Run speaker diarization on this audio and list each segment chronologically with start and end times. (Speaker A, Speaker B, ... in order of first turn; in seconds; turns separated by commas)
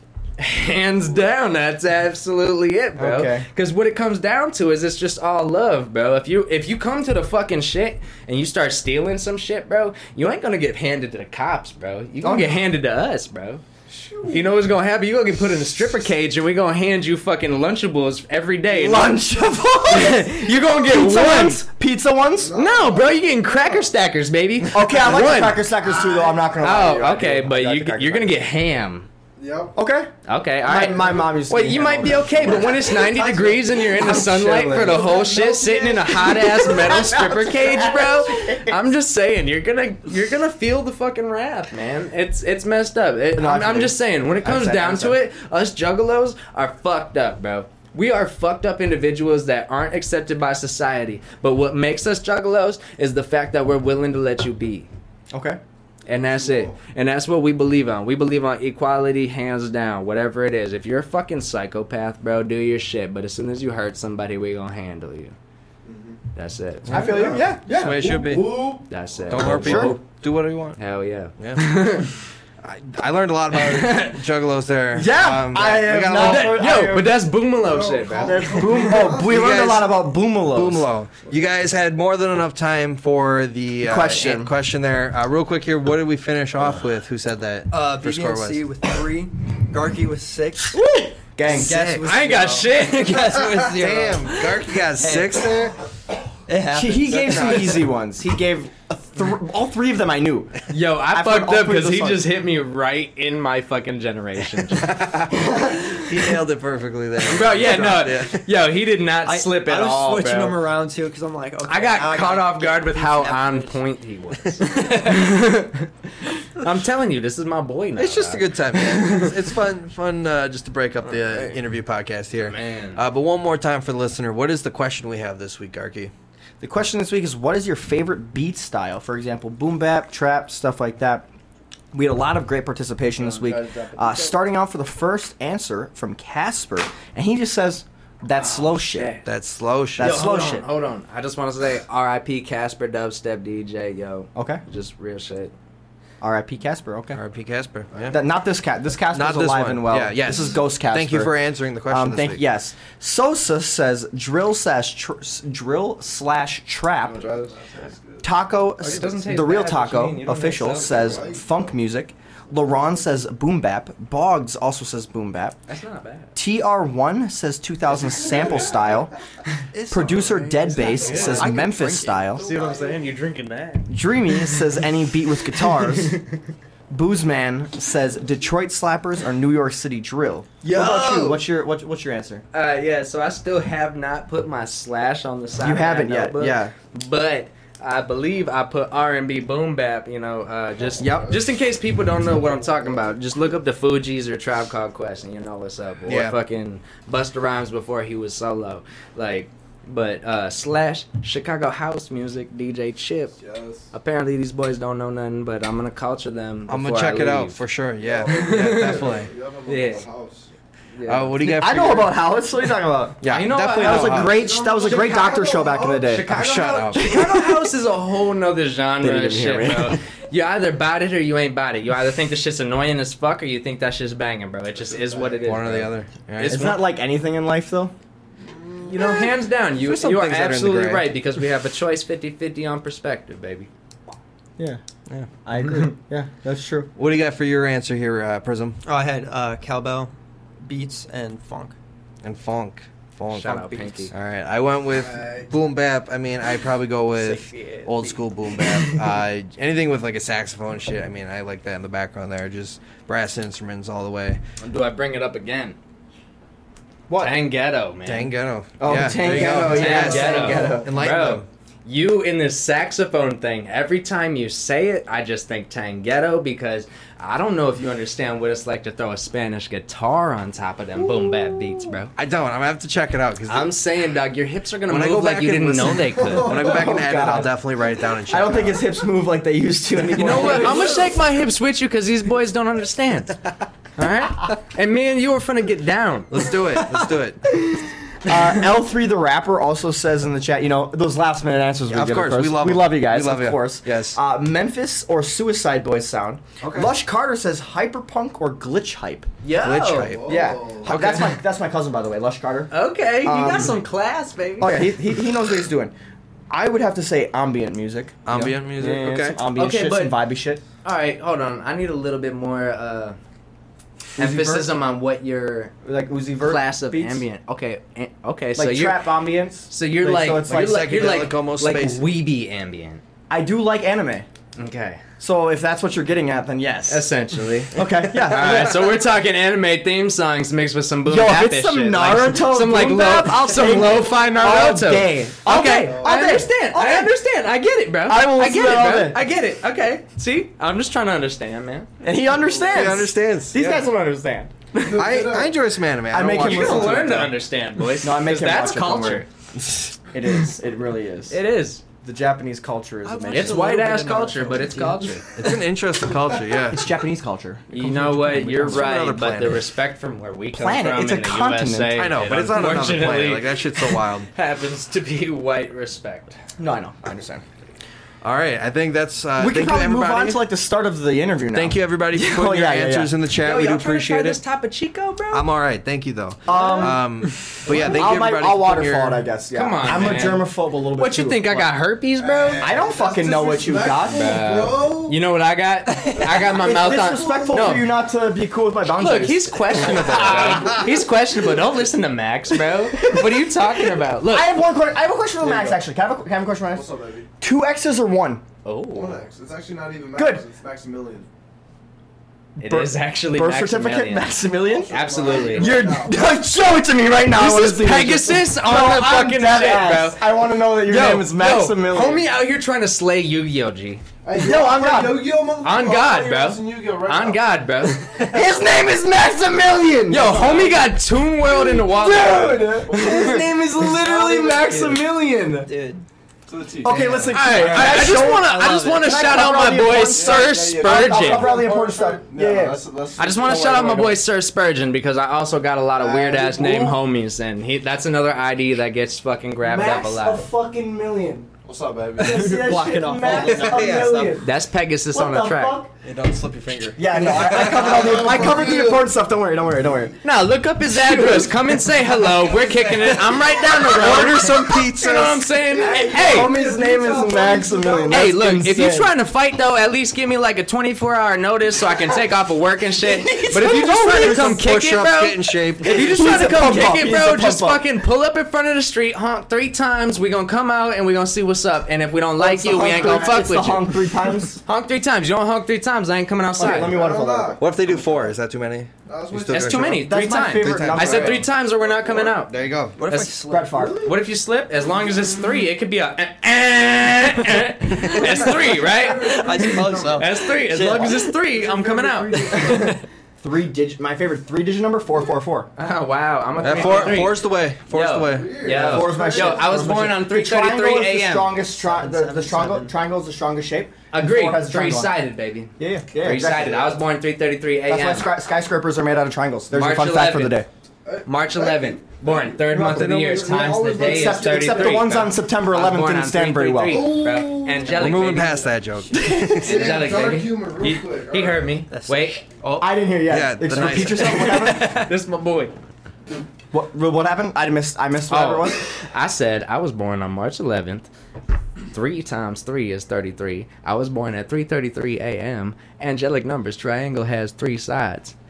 Speaker A: 0.4-13.6, Speaker B: 3.0-3.5, Speaker B: 12.2-12.6, Speaker C: 13.9-14.5, Speaker A: 14.3-19.2, Speaker B: 18.7-22.6, Speaker A: 19.9-21.6, Speaker C: 22.4-23.8, Speaker A: 22.5-25.7, Speaker B: 24.7-28.4, Speaker C: 25.9-26.5, Speaker A: 26.6-29.1, Speaker C: 29.4-29.8, Speaker B: 29.8-30.1, Speaker A: 30.3-54.9, Speaker B: 30.6-38.8, Speaker C: 31.8-32.9, Speaker C: 34.7-37.1, Speaker B: 43.3-45.2, Speaker B: 55.3-55.6, Speaker A: 56.0-65.3, Speaker C: 56.3-56.8, Speaker C: 65.8-66.2, Speaker A: 66.3-67.4, Speaker D: 66.9-67.2, Speaker B: 66.9-67.9, Speaker C: 66.9-68.9, Speaker D: 67.7-68.7, Speaker A: 68.9-70.0, Speaker D: 69.3-70.8, Speaker B: 69.3-70.0, Speaker A: 70.8-72.1, Speaker D: 71.4-72.0, Speaker D: 72.6-76.7, Speaker A: 73.5-74.2, Speaker B: 74.9-77.1, Speaker A: 76.1-79.0, Speaker C: 77.6-79.3, Speaker B: 78.2-80.9, Speaker D: 79.2-88.6, Speaker C: 81.3-81.6, Speaker B: 83.8-84.5, Speaker E: 87.7-90.8, Speaker B: 91.3-91.8, Speaker E: 91.4-95.7, Speaker D: 91.5-92.1, Speaker A: 92.0-93.7, Speaker D: 93.7-95.8, Speaker E: 96.5-97.9, Speaker B: 96.7-102.3, Speaker D: 97.2-97.7, Speaker A: 100.7-105.3, Speaker D: 105.5-108.5, Speaker A: 107.2-110.6, Speaker E: 109.2-113.8, Speaker A: 111.7-119.2, Speaker D: 118.0-126.1, Speaker E: 121.2-121.5, Speaker A: 122.4-123.0, Speaker B: 126.6-131.3, Speaker B: 131.9-139.1, Speaker A: 133.2-134.3, Speaker A: 138.3-139.2, Speaker D: 139.2-140.2, Speaker B: 140.0-140.7, Speaker A: 140.0-145.5, Speaker B: 144.3-144.6, Speaker B: 146.2-147.2, Speaker D: 147.1-148.2, Speaker B: 148.1-157.3, Speaker D: 149.1-152.4, Speaker C: 157.0-158.3, Speaker B: 158.2-165.6, Speaker A: 158.8-161.3, Speaker C: 160.7-161.6, Speaker A: 165.7-166.3, Speaker B: 166.3-169.1, Speaker C: 168.0-169.1, Speaker D: 169.7-171.6, Speaker B: 169.9-172.5, Speaker A: 170.8-171.6, Speaker C: 170.8-171.5, Speaker E: 171.1-172.3, Speaker A: 172.3-173.9, Speaker C: 172.3-173.0, Speaker B: 173.9-176.2, Speaker B: 176.9-182.4, Speaker A: 180.6-181.4, Speaker E: 180.9-181.2, Speaker A: 182.5-203.3, Speaker B: 185.6-186.7, Speaker C: 191.0-191.3, Speaker B: 191.0-191.3, Speaker D: 196.1-196.3, Speaker C: 203.4-203.9, Speaker A: 203.9-207.6, Speaker D: 206.7-209.3, Speaker C: 208.0-210.5, Speaker A: 208.3-209.1, Speaker A: 209.7-210.1, Speaker A: 210.9-211.7, Speaker D: 211.0-212.2, Speaker B: 211.4-216.3, Speaker D: 213.2-214.5, Speaker A: 213.2-215.2, Speaker C: 214.3-216.2, Speaker A: 216.0-226.8, Speaker D: 216.2-217.2, Speaker B: 217.0-217.4, Speaker B: 219.0-220.0, Speaker C: 224.8-225.4, Speaker D: 225.4-226.8, Speaker B: 226.4-227.9, Speaker C: 228.4-229.3, Speaker A: 228.8-233.7, Speaker D: 229.7-231.1, Speaker B: 235.4-236.9, Speaker A: 235.6-235.9, Speaker D: 236.9-238.8, Speaker E: 238.8-240.1, Speaker E: 240.6-241.7, Speaker D: 242.2-254.4, Speaker A: 243.3-244.1, Speaker C: 245.0-245.5, Speaker A: 247.2-248.2, Speaker A: 254.6-255.8, Speaker B: 257.1-257.4, Speaker A: 257.2-258.3, Speaker D: 258.1-261.4, Speaker B: 258.8-260.9, Speaker A: 259.2-272.1, Speaker D: 272.1-273.7, Speaker A: 273.4-276.7, Speaker D: 274.9-278.8, Speaker C: 276.1-277.0, Speaker B: 276.5-277.6, Speaker B: 278.3-281.0, Speaker A: 280.1-283.4, Speaker D: 280.3-280.9, Speaker A: 283.9-286.4, Speaker D: 286.3-287.4, Speaker B: 287.5-299.3, Speaker D: 291.9-294.2, Speaker D: 296.6-296.9, Speaker A: 299.4-300.2, Speaker D: 299.6-301.4, Speaker C: 299.9-300.9, Speaker B: 300.2-303.8, Speaker A: 300.9-301.2, Speaker A: 302.7-304.8, Speaker B: 304.6-305.9, Speaker B: 306.5-310.6, Speaker D: 308.2-309.4, Speaker A: 309.5-310.2, Speaker A: 310.8-313.2, Speaker B: 314.1-314.7, Speaker A: 314.2-315.7, Speaker B: 315.8-317.2, Speaker A: 316.4-319.1, Speaker B: 318.5-321.0, Speaker A: 319.7-323.0, Speaker D: 320.5-322.0, Speaker B: 323.3-324.3, Speaker A: 324.6-325.0, Speaker B: 325.2-327.1, Speaker A: 326.9-341.9, Speaker B: 327.7-328.9, Speaker B: 331.1-337.1, Speaker C: 335.8-336.3, Speaker B: 338.0-339.2, Speaker B: 342.0-344.6, Speaker C: 342.4-342.9, Speaker D: 342.7-343.8, Speaker C: 344.7-345.6, Speaker D: 344.9-347.2, Speaker B: 346.1-347.4, Speaker A: 346.2-349.3, Speaker B: 348.0-349.2, Speaker B: 350.1-351.4, Speaker A: 351.3-351.8, Speaker B: 352.0-355.0, Speaker E: 353.2-354.9, Speaker D: 353.3-353.6, Speaker A: 353.3-355.3, Speaker D: 355.4-356.9, Speaker B: 356.6-358.9, Speaker A: 357.7-366.4, Speaker D: 357.8-359.7, Speaker B: 360.5-362.0, Speaker D: 361.9-364.3, Speaker B: 366.6-367.4, Speaker D: 368.2-370.4, Speaker B: 369.4-373.1, Speaker D: 371.5-374.4, Speaker A: 373.4-375.5, Speaker D: 375.3-379.2, Speaker B: 376.5-377.0, Speaker A: 376.6-376.8, Speaker B: 377.6-381.6, Speaker A: 379.5-382.7, Speaker C: 382.2-385.2, Speaker B: 382.6-384.4, Speaker A: 384.1-387.9, Speaker C: 386.1-387.7, Speaker B: 386.5-390.9, Speaker A: 388.9-394.6, Speaker B: 393.0-393.5, Speaker B: 394.2-396.9, Speaker C: 395.4-395.8, Speaker C: 396.7-397.3, Speaker B: 397.4-398.4, Speaker A: 398.6-399.2, Speaker C: 398.9-401.3, Speaker B: 400.1-400.4, Speaker A: 402.6-405.9, Speaker B: 402.6-412.2, Speaker C: 404.6-406.2, Speaker A: 407.3-414.0, Speaker C: 414.2-417.4, Speaker B: 414.4-415.3, Speaker A: 415.6-418.5, Speaker B: 418.2-420.6, Speaker A: 420.1-423.4, Speaker C: 420.1-420.9, Speaker B: 421.6-425.7, Speaker C: 422.8-424.7, Speaker E: 424.3-425.0, Speaker E: 425.7-426.0, Speaker C: 426.5-427.7, Speaker B: 426.8-432.8, Speaker D: 426.9-428.2, Speaker A: 427.3-431.7, Speaker C: 429.9-434.2, Speaker A: 433.2-440.4, Speaker B: 436.0-436.8, Speaker C: 436.2-436.9, Speaker B: 439.6-441.5, Speaker C: 441.6-442.8, Speaker B: 442.2-444.5, Speaker E: 442.2-444.2, Speaker D: 443.2-444.4, Speaker A: 444.4-445.8, Speaker B: 445.1-445.9, Speaker D: 446.0-448.3, Speaker B: 446.9-450.2, Speaker C: 447.5-449.1, Speaker A: 450.2-456.6, Speaker B: 450.9-451.8, Speaker C: 452.1-453.6, Speaker B: 453.8-454.9, Speaker D: 453.8-455.4, Speaker C: 455.7-458.3, Speaker B: 455.8-459.1, Speaker A: 458.1-477.0, Speaker B: 463.0-464.6, Speaker D: 463.7-466.2, Speaker B: 465.8-467.8, Speaker B: 472.4-474.6, Speaker B: 476.6-477.9, Speaker C: 476.6-478.2, Speaker D: 477.6-481.5, Speaker C: 479.1-480.0, Speaker A: 479.5-482.5, Speaker B: 480.0-481.5, Speaker C: 481.7-482.4, Speaker D: 482.4-483.0, Speaker E: 482.9-483.7, Speaker A: 483.1-493.0, Speaker B: 483.4-484.0, Speaker C: 483.9-484.1, Speaker C: 488.1-492.9, Speaker E: 488.2-490.4, Speaker B: 490.7-491.3, Speaker E: 491.6-492.0, Speaker B: 492.5-495.7, Speaker A: 495.8-501.6, Speaker D: 496.6-499.1, Speaker C: 498.3-500.0, Speaker B: 498.6-505.1, Speaker E: 501.8-502.9, Speaker A: 504.1-508.3, Speaker B: 505.8-506.9, Speaker B: 507.9-510.7, Speaker A: 509.7-510.6, Speaker C: 511.0-515.3, Speaker A: 511.2-518.7, Speaker B: 512.7-517.3, Speaker D: 512.9-513.5, Speaker C: 516.9-518.3, Speaker D: 517.9-520.0, Speaker A: 519.4-522.5, Speaker C: 519.5-521.8, Speaker E: 521.9-522.4, Speaker D: 522.6-524.6, Speaker B: 522.8-525.1, Speaker A: 523.7-525.7, Speaker B: 526.7-528.8, Speaker A: 528.3-531.1, Speaker A: 531.9-538.3